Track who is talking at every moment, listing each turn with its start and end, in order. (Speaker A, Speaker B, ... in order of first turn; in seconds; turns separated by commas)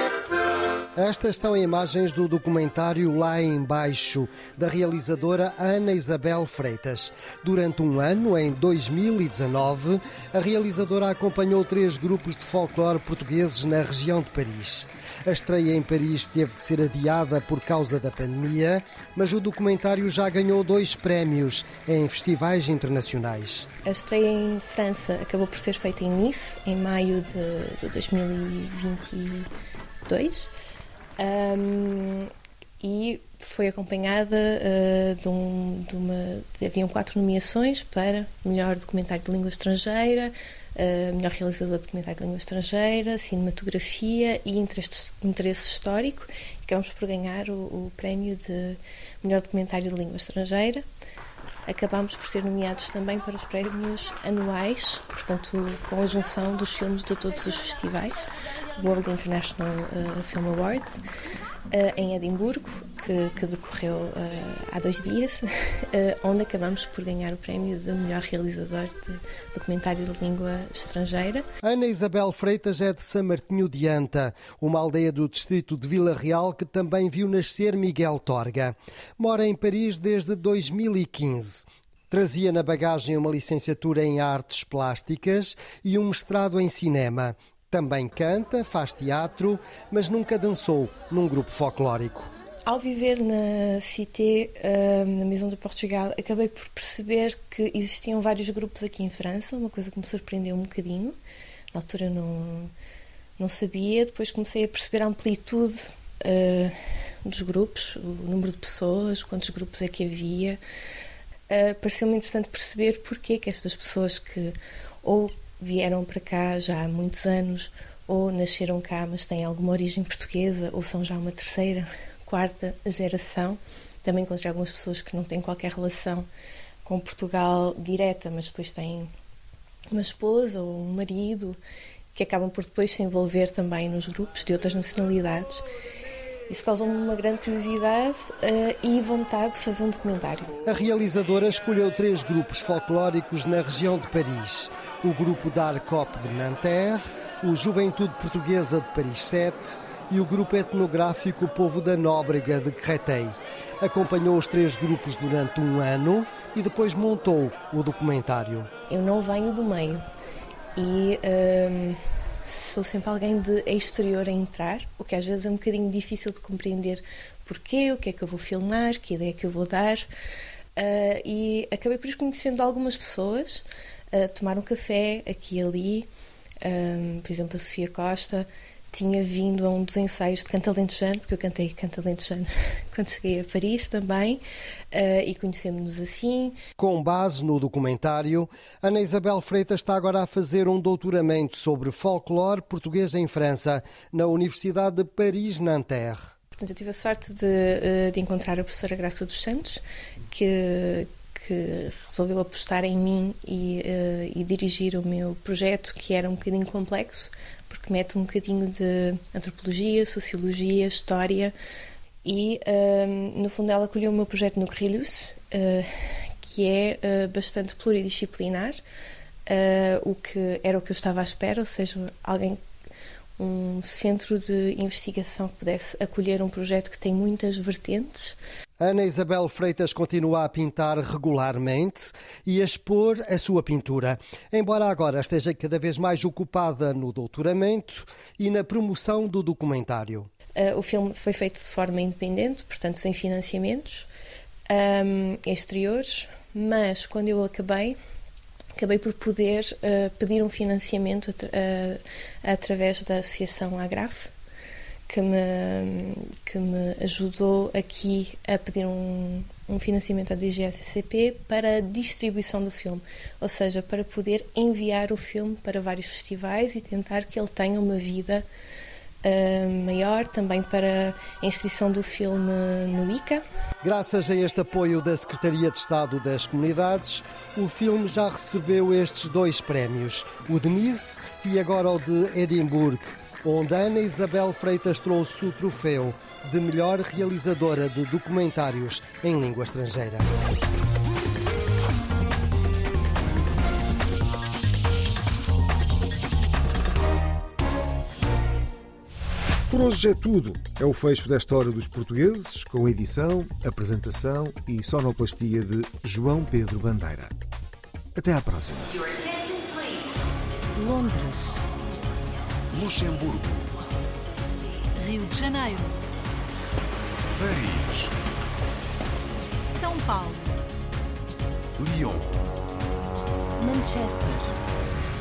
Speaker A: 1.0-23.7, Speaker B: 23.9-29.5, Speaker B: 30.1-30.5, Speaker B: 31.2-50.8, Speaker B: 51.7-58.2, Speaker B: 58.8-61.0, Speaker B: 61.7-71.5, Speaker A: 71.6-92.3, Speaker B: 92.7-101.2, Speaker B: 101.7-102.7, Speaker B: 103.4-110.6, Speaker B: 111.5-126.3, Speaker B: 126.8-129.1, Speaker B: 129.9-131.6, Speaker B: 132.2-135.7, Speaker B: 136.5-140.5, Speaker A: 140.7-158.7, Speaker B: 158.9-160.0, Speaker B: 160.8-170.1, Speaker B: 170.8-176.1, Speaker B: 176.6-184.4, Speaker B: 184.9-186.6, Speaker A: 186.8-196.3, Speaker B: 196.6-211.5, Speaker B: 212.2-218.8, Speaker B: 219.5-222.6, Speaker B: 223.4-228.4, Speaker A: 228.8-240.3, Speaker B: 240.6-244.1, Speaker B: 244.7-248.0, Speaker B: 248.8-254.3, Speaker B: 255.1-268.5, Speaker B: 269.2-273.4, Speaker A: 273.8-290.3, Speaker C: 299.7-307.4, Speaker C: 308.2-308.9, Speaker D: 310.8-311.6, Speaker E: 312.7-313.7, Speaker D: 315.0-316.0, Speaker E: 317.4-318.1, Speaker D: 319.7-320.6, Speaker E: 321.8-322.3, Speaker D: 323.6-324.5